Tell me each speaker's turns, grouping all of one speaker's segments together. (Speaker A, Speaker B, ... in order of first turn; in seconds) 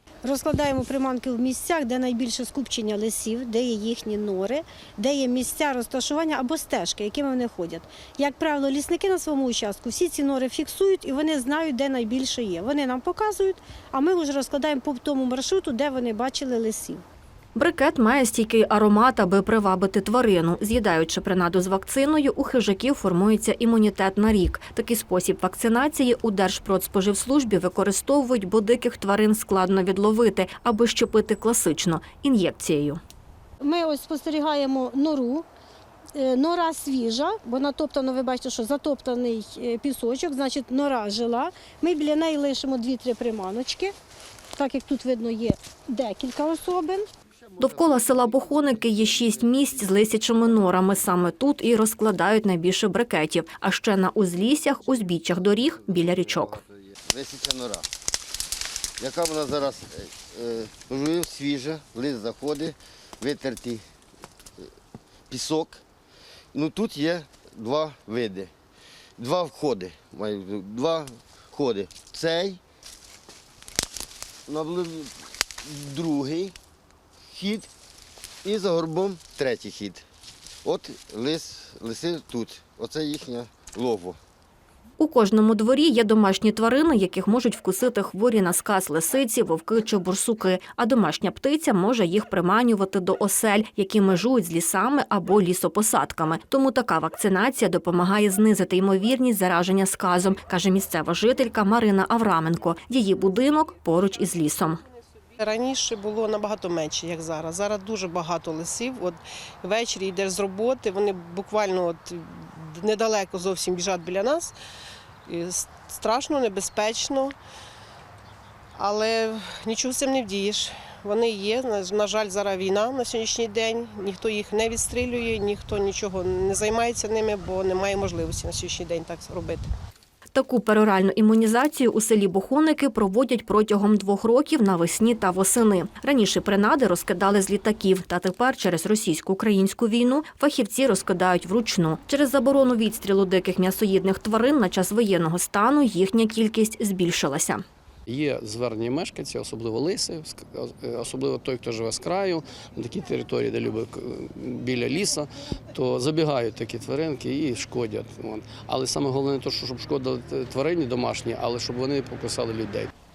Speaker A: 0.2-17.0, 33.6-35.5, 36.1-44.0, 44.5-47.1
Speaker B: 17.6-33.0, 47.6-56.6, 85.0-104.8, 130.3-147.6
Speaker C: 47.5-50.9, 55.0-57.9, 59.0-63.9, 65.3-65.8, 66.5-68.5, 69.2-72.6, 74.5-76.5, 77.3-77.7, 78.4-80.0, 80.6-84.2
Speaker D: 105.4-114.5, 115.3-117.4, 118.8-129.7
Speaker E: 148.1-162.9